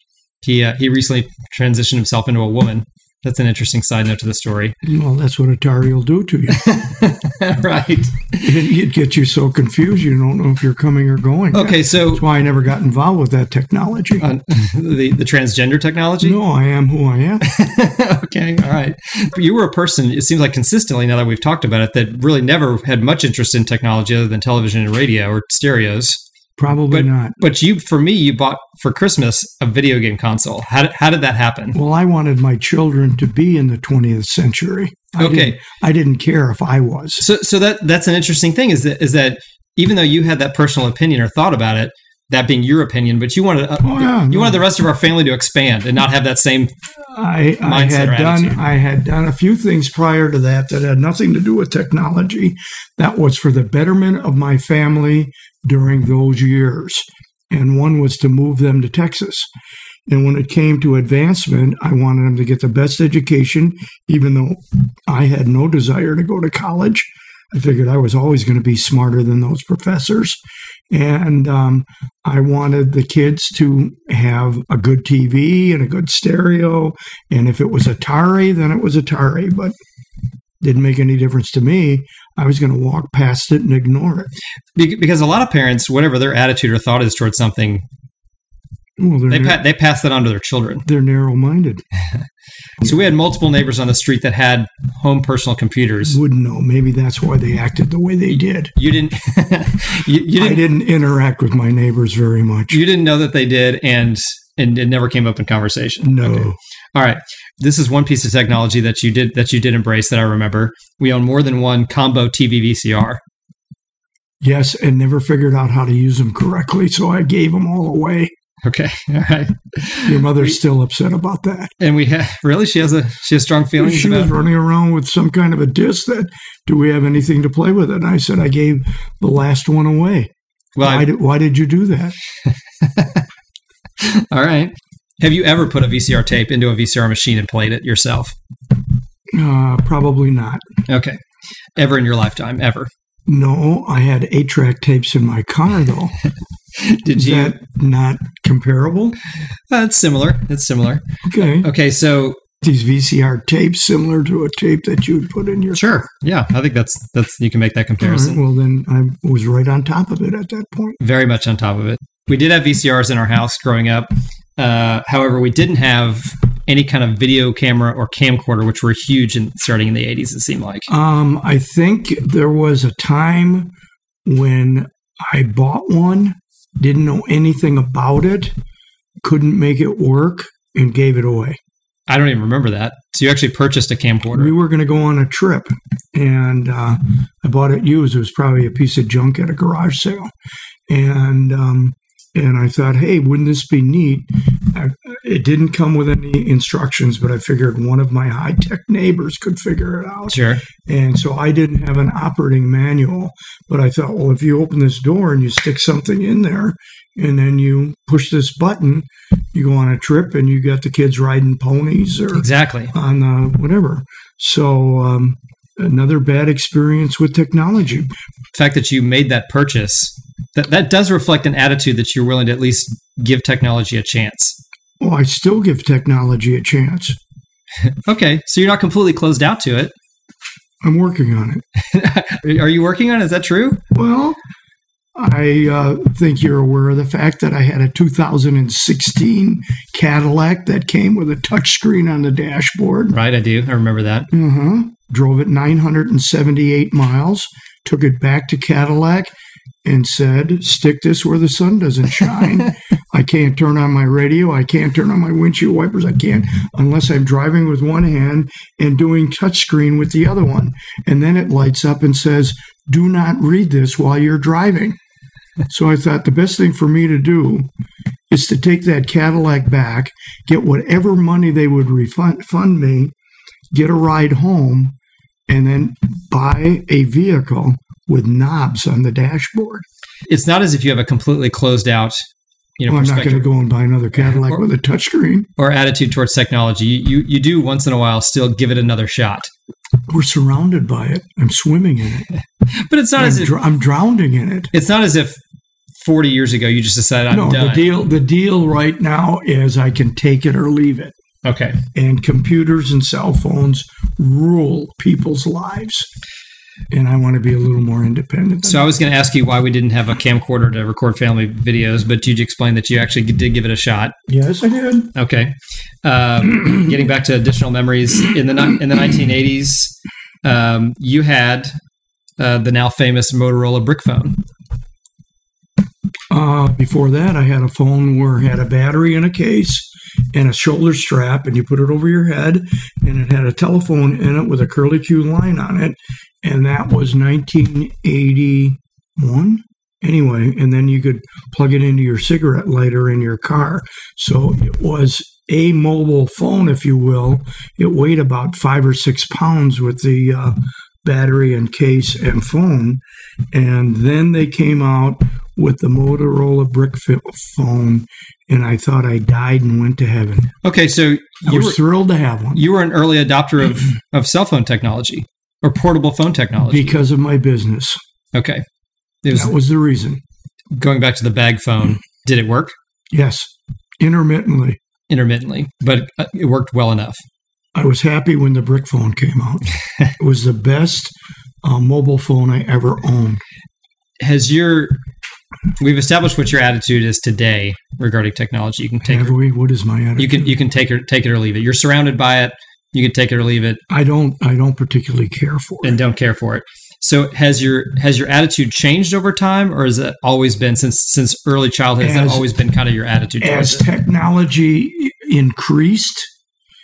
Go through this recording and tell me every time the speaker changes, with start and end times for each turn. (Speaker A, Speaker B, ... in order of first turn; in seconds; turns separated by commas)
Speaker A: 0.4-4.8, Speaker B: 4.8-6.7, Speaker A: 6.5-8.6, Speaker B: 8.4-14.3, Speaker A: 11.5-12.3, Speaker A: 14.2-16.4, Speaker B: 16.2-17.4, Speaker A: 17.4-26.2, Speaker B: 26.6-27.4, Speaker A: 26.9-31.8, Speaker B: 31.7-37.2, Speaker A: 35.2-35.6, Speaker A: 37.2-46.7, Speaker B: 43.8-44.6, Speaker B: 47.1-59.5, Speaker A: 47.6-48.6, Speaker B: 60.1-70.4, Speaker B: 70.9-79.8, Speaker B: 80.6-84.3, Speaker A: 84.8-87.8, Speaker B: 89.0-89.6, Speaker A: 89.3-90.9, Speaker B: 90.8-91.8, Speaker A: 92.8-96.2, Speaker B: 96.0-98.7, Speaker A: 98.3-100.7, Speaker B: 100.4-102.8, Speaker A: 102.7-113.2, Speaker B: 106.0-106.6, Speaker B: 114.4-118.3, Speaker A: 118.6-120.5, Speaker B: 120.0-121.7, Speaker A: 121.8-124.3, Speaker B: 123.8-132.2, Speaker A: 130.8-131.1, Speaker A: 132.8-133.2, Speaker A: 134.0-138.3, Speaker B: 139.3-140.6, Speaker A: 140.9-141.2, Speaker A: 141.8-142.9, Speaker B: 143.3-146.2, Speaker A: 146.8-147.6, Speaker B: 147.1-149.2, Speaker A: 149.7-152.4, Speaker B: 151.2-151.7, Speaker B: 152.6-155.8, Speaker A: 155.7-158.4, Speaker B: 158.0-161.0, Speaker A: 161.0-170.9, Speaker B: 170.9-173.7, Speaker B: 174.2-178.5, Speaker B: 179.2-181.6, Speaker A: 182.1-184.5, Speaker B: 184.3-190.3, Speaker B: 190.9-218.1, Speaker A: 200.3-200.6, Speaker A: 212.3-212.9, Speaker A: 218.5-224.6, Speaker B: 225.0-227.2, Speaker A: 227.9-229.9, Speaker B: 230.8-231.6, Speaker A: 231.8-233.8, Speaker B: 233.9-234.4, Speaker B: 235.2-243.2, Speaker A: 243.1-244.3, Speaker B: 244.3-249.3, Speaker B: 249.8-265.0, Speaker B: 265.7-267.7, Speaker B: 268.3-273.1, Speaker B: 273.7-274.9, Speaker B: 275.5-279.9, Speaker A: 280.3-282.2, Speaker A: 282.8-283.5, Speaker B: 282.9-285.5, Speaker A: 284.1-284.6, Speaker A: 285.6-289.5, Speaker B: 290.1-292.3, Speaker A: 292.7-293.6, Speaker B: 293.2-294.7, Speaker A: 294.7-295.4, Speaker A: 296.0-297.9, Speaker B: 297.3-301.1, Speaker A: 301.4-301.8, Speaker B: 301.9-306.1, Speaker B: 306.9-308.9, Speaker A: 308.6-314.1, Speaker B: 314.3-315.1, Speaker A: 315.1-315.5, Speaker A: 316.0-321.7, Speaker A: 322.4-324.4, Speaker B: 326.3-360.5, Speaker A: 360.6-361.8, Speaker B: 361.4-362.6, Speaker A: 362.5-367.0, Speaker B: 366.7-368.0, Speaker A: 368.3-368.6, Speaker A: 369.2-369.5, Speaker B: 369.3-370.2, Speaker A: 370.8-372.7, Speaker B: 373.1-374.8, Speaker A: 375.1-377.2, Speaker B: 377.8-383.4, Speaker A: 384.2-385.0, Speaker A: 385.8-389.4, Speaker B: 389.0-390.6, Speaker A: 390.2-393.8, Speaker B: 393.9-396.0, Speaker A: 395.8-403.9, Speaker B: 402.0-402.5, Speaker B: 403.4-406.3